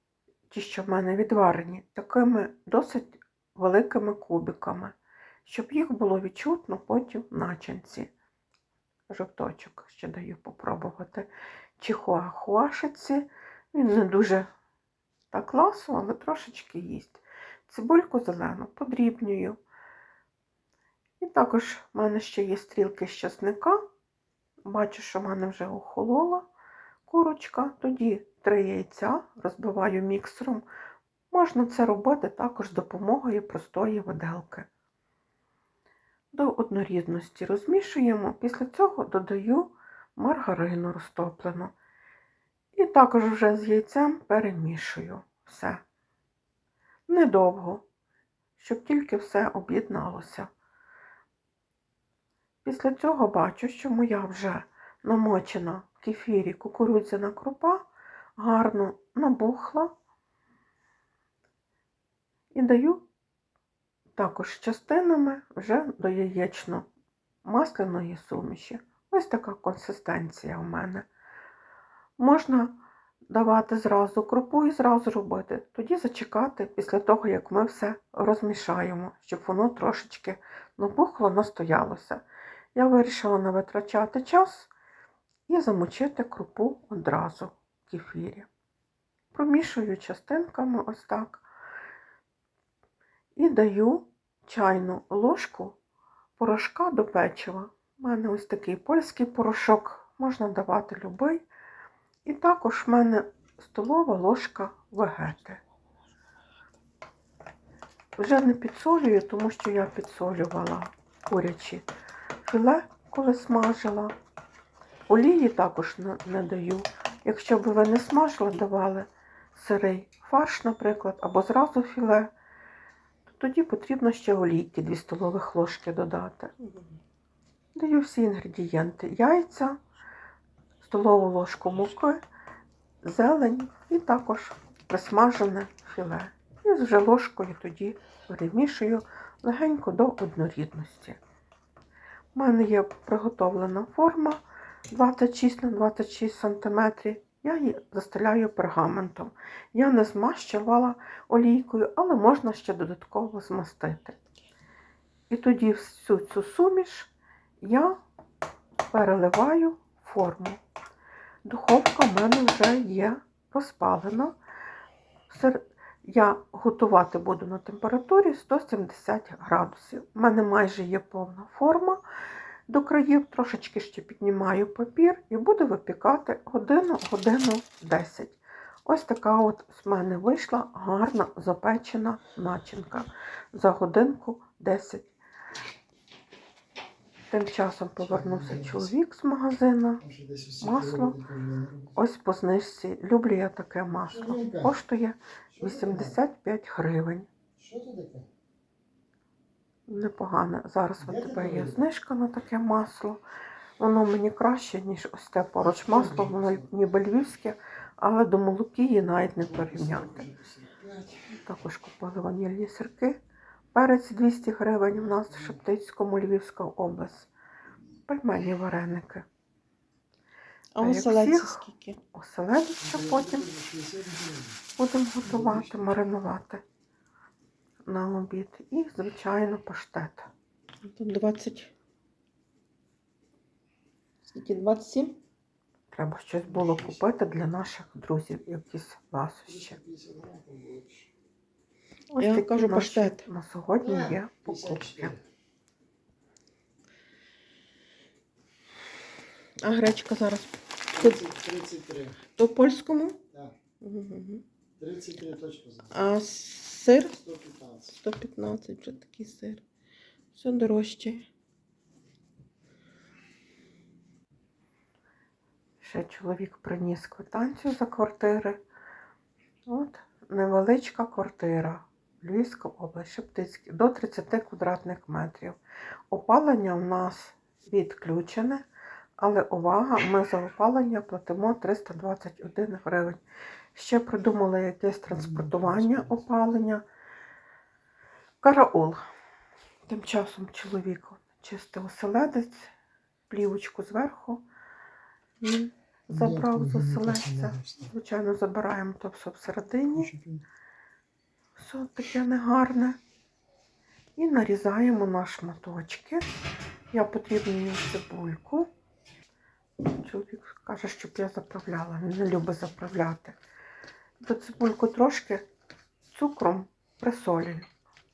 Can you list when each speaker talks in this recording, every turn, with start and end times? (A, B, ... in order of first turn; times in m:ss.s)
0:00.5-0:08.1 A
0:09.1-0:14.5 A
0:15.3-0:19.6 A
0:21.2-0:23.8 A
0:24.6-0:26.5 A
0:27.1-0:30.6 A
0:31.3-0:34.7 A
0:36.3-0:41.7 A
0:42.7-0:45.8 A
0:47.1-0:47.8 A
0:48.6-0:50.5 A
0:52.6-0:57.8 A
0:58.4-0:59.9 A
1:02.5-1:03.0 A
1:04.2-1:06.8 A
1:07.4-1:11.0 A
1:12.2-1:22.2 A
1:22.7-1:24.7 A
1:25.5-1:28.5 A
1:29.3-1:31.4 A
1:33.4-1:35.8 A
1:36.4-1:41.4 A
1:42.2-1:45.6 A
1:48.2-1:51.9 A
1:52.4-1:54.1 A
1:55.1-2:02.3 A
2:03.3-2:06.5 A
2:07.7-2:09.8 A
2:10.8-2:12.2 A
2:13.0-2:21.2 A
2:22.3-2:34.2 A
2:35.3-2:37.1 A
2:37.6-2:38.0 A
2:38.9-2:40.6 A
2:41.4-2:44.4 A
2:45.3-2:52.0 A
2:52.7-3:05.1 A
3:07.3-3:10.0 A
3:08.0-3:08.9 B
3:10.0-3:12.0 B
3:10.6-3:11.2 A
3:11.9-3:17.3 A
3:14.1-3:14.8 B
3:15.5-3:16.2 B
3:17.6-3:18.3 B
3:19.9-3:23.2 A
3:21.0-3:21.8 B
3:23.8-3:30.3 A
3:25.6-3:26.7 B
3:29.4-3:31.4 B
3:31.4-3:33.2 A
3:33.7-3:37.3 A
3:34.9-3:35.5 B
3:38.1-3:39.2 A
3:40.8-3:42.0 C
3:40.8-3:43.5 A
3:42.8-3:44.6 B
3:44.8-3:46.6 A
3:45.2-3:46.0 B
3:47.9-3:50.3 A
3:50.8-3:51.7 C
3:54.3-3:55.1 C
3:55.9-3:59.8 A
3:56.4-3:57.0 B
3:59.4-4:01.1 B
4:02.2-4:05.2 A
4:02.2-4:03.2 C
4:03.8-4:05.2 B
4:09.6-4:11.1 A
4:10.9-4:12.2 B
4:12.4-4:13.2 A
4:13.8-4:14.4 C
4:14.8-4:16.0 B
4:16.0-4:17.1 C
4:16.1-4:16.8 A
4:17.1-4:18.0 B
4:18.0-4:19.6 A
4:18.7-4:19.2 C
4:20.4-4:21.2 A
4:25.8-4:28.6 A
4:29.6-4:35.6 A
4:36.1-4:38.6 A
4:39.2-4:43.2 A
4:43.7-4:46.8 A
4:45.1-4:46.2 B
4:48.4-4:49.0 A
4:49.9-4:52.7 A
4:53.3-4:54.4 A
4:55.4-5:00.1 A
4:56.1-4:57.9 B
4:59.9-5:00.4 B
5:01.6-5:03.0 A
5:04.2-5:06.2 A
5:06.9-5:08.7 A
5:09.9-5:13.4 A
5:14.2-5:15.4 A
5:16.1-5:17.7 A